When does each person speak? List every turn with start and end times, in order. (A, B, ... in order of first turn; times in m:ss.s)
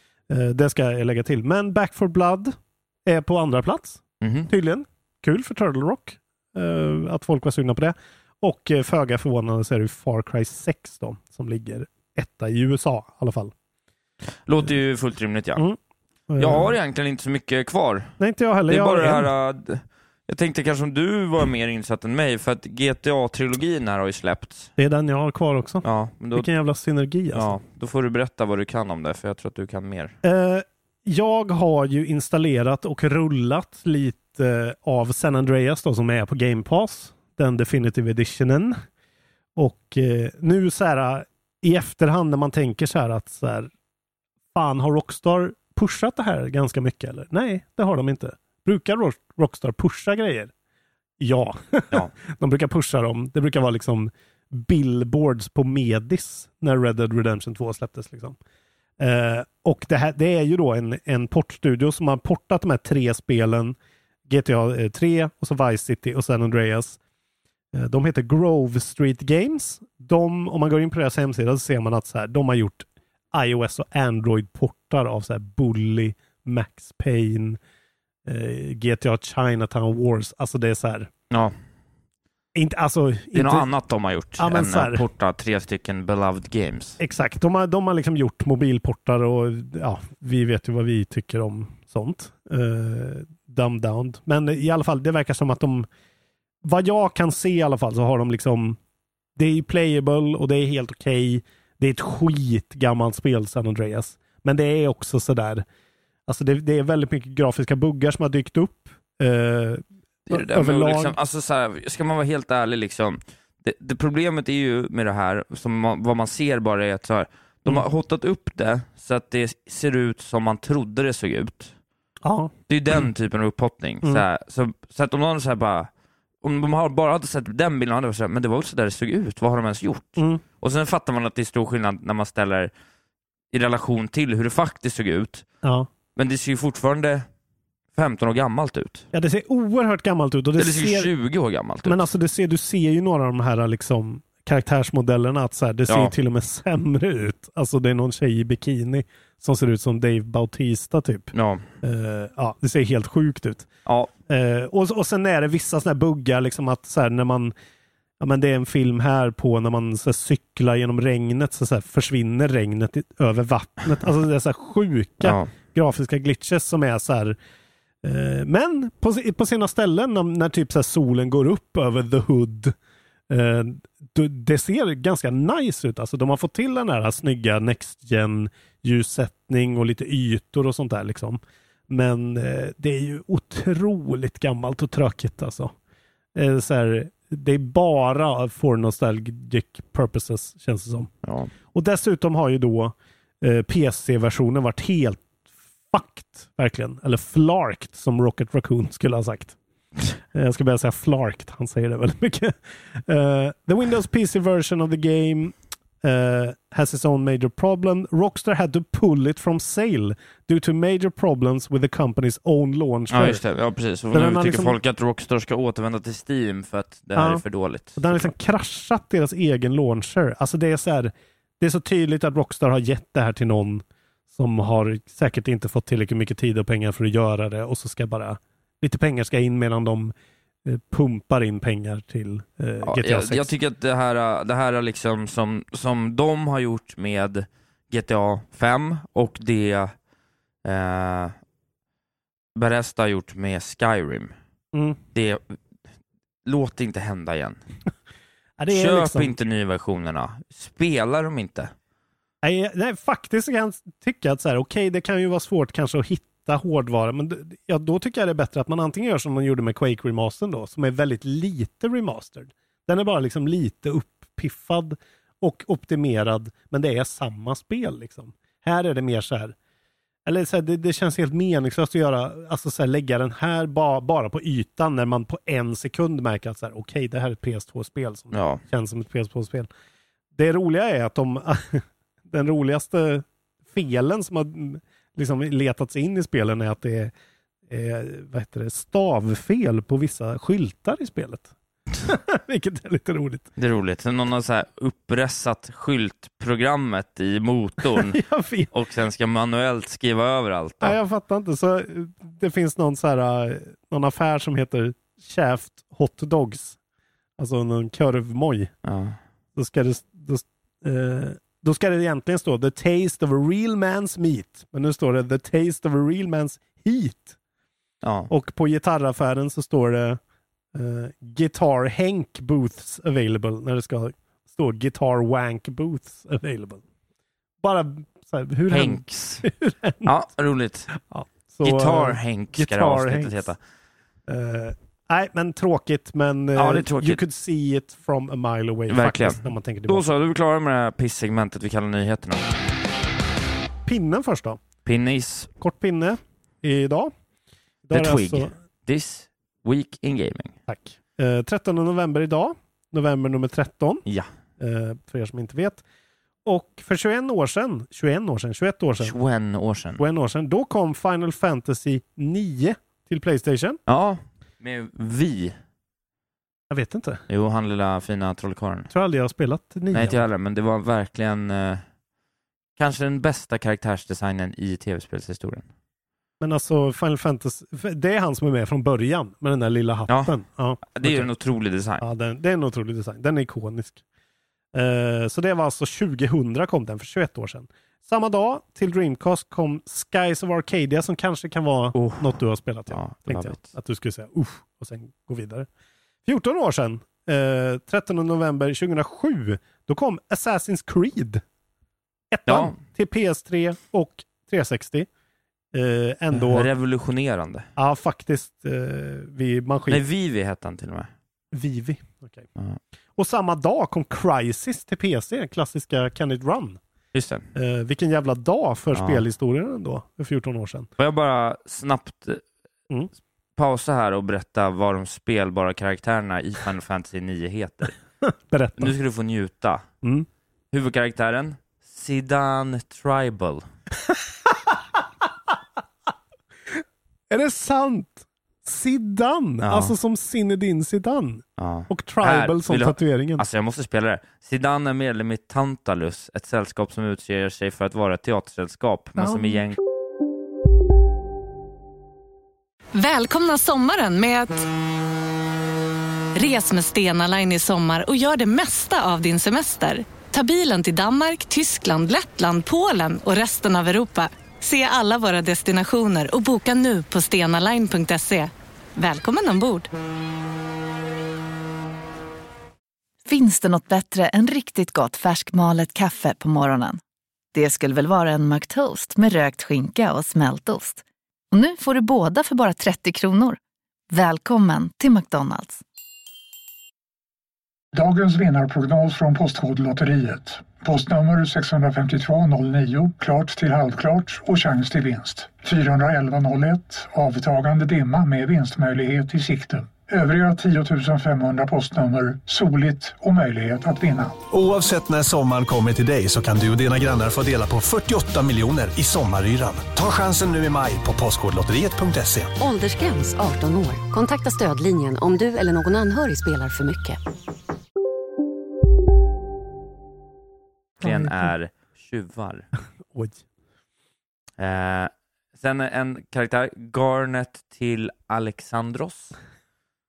0:00.3-0:13.5 A
0:04.2-0:04.5 B
0:14.5-0:15.6 B
0:16.3-0:16.8 A
0:16.4-0:18.1 B
0:18.2-0:19.3 A
0:18.7-0:24.7 B
0:24.8-0:27.6 A
0:25.8-0:26.5 B
0:27.3-0:30.1 B
0:30.2-0:38.8 A
0:39.6-0:43.7 A
0:44.5-0:50.5 A
0:51.2-0:58.4 A
0:59.0-1:07.0 A
1:07.7-1:17.6 A
1:18.2-1:21.1 A
1:22.5-1:23.7 A
1:23.3-1:27.0 B
1:24.4-1:25.0 A
1:27.0-1:35.9 A
1:36.6-1:38.8 A
1:39.4-1:45.6 A
1:46.3-1:51.2 A
1:50.3-2:01.7 B
2:02.2-2:02.5 A
2:02.7-2:05.9 B
2:06.4-2:12.7 B
2:10.2-2:10.4 A
2:13.5-2:15.4 B
2:15.6-2:15.9 A
2:16.2-2:17.2 B
2:17.9-2:19.0 B
2:19.1-2:21.1 A
2:20.6-2:22.0 B
2:21.8-2:33.7 A
2:25.9-2:26.1 B
2:31.3-2:31.6 B
2:34.3-2:37.5 A
2:38.2-2:47.4 A
2:45.2-2:45.5 B
2:48.0-2:52.8 A
2:53.3-3:05.7 A
3:06.3-3:11.1 A
3:11.2-3:11.5 B
3:11.7-3:15.3 A
3:15.9-3:19.6 A
3:20.3-3:33.4 A
3:33.1-3:38.3 B
3:34.1-3:34.8 A
3:37.1-3:37.4 A
3:38.0-3:50.1 A
3:50.6-3:53.5 A
3:52.8-3:59.9 B
4:00.6-4:01.3 B
4:02.6-4:04.3 B
4:04.7-4:05.0 A
4:05.1-4:05.6 B
4:06.4-4:07.6 B
4:08.6-4:09.3 A
4:08.7-4:11.7 B
4:12.4-4:29.6 A
4:30.2-4:39.7 A
4:38.3-4:38.6 B
4:40.3-4:47.1 A
4:47.7-4:51.5 A
4:52.0-4:53.5 A
4:53.6-4:58.2 B
4:57.8-4:58.7 A
4:58.7-5:01.0 B
5:00.8-5:06.8 A
5:07.4-5:08.7 A
5:08.8-5:09.2 B
5:09.6-5:17.4 A
5:18.0-5:18.3 B
5:18.3-5:20.2 A
5:20.7-5:26.8 A
5:27.6-5:30.1 A
5:28.7-5:29.4 B
5:30.0-5:30.9 B
5:30.9-5:33.5 A
5:31.6-5:33.6 B
5:34.3-5:40.0 A
5:36.5-5:37.2 B
5:38.9-5:42.4 B
5:43.8-5:44.6 A
5:44.8-5:45.5 B
5:45.6-5:47.1 A
5:47.8-5:48.5 A
5:47.9-5:50.5 B
5:50.7-5:54.0 A
5:54.6-5:55.8 A
5:56.4-5:59.1 A
5:59.0-6:00.0 B
6:00.0-6:03.8 A
6:03.9-6:05.6 B
6:06.7-6:07.2 A
6:07.3-6:08.9 B
6:08.9-6:10.2 A
6:09.9-6:11.8 B
6:12.8-6:15.6 B
6:16.4-6:21.3 A
6:20.8-6:22.0 B
6:22.0-6:24.0 A
6:24.7-6:35.7 A
6:31.9-6:33.7 B
6:36.2-6:41.4 A
6:42.3-6:45.1 A
6:42.5-6:42.8 B
6:45.7-6:46.7 A
6:46.3-6:47.7 B
6:47.8-6:50.0 A
6:49.9-6:51.1 B
6:51.5-6:52.4 A
6:53.2-6:56.8 A
6:57.1-6:57.5 B
6:57.5-7:00.9 A
6:58.9-6:59.2 B
7:01.0-7:02.4 B
7:03.6-7:07.9 B
7:08.2-7:08.9 A
7:08.8-7:09.8 B
7:10.7-7:13.6 B
7:17.3-7:23.4 A
7:19.6-7:19.9 B
7:21.6-7:29.8 B
7:33.0-7:34.6 C
7:36.3-7:49.9 C
7:53.2-7:57.0 D
7:57.5-8:03.6 D
8:04.1-8:05.8 D
8:07.9-8:24.4 E
8:24.5-8:32.5 F
8:32.6-8:37.2 G
8:41.0-8:42.6 B
8:43.1-8:43.4 A
8:44.6-8:49.3 B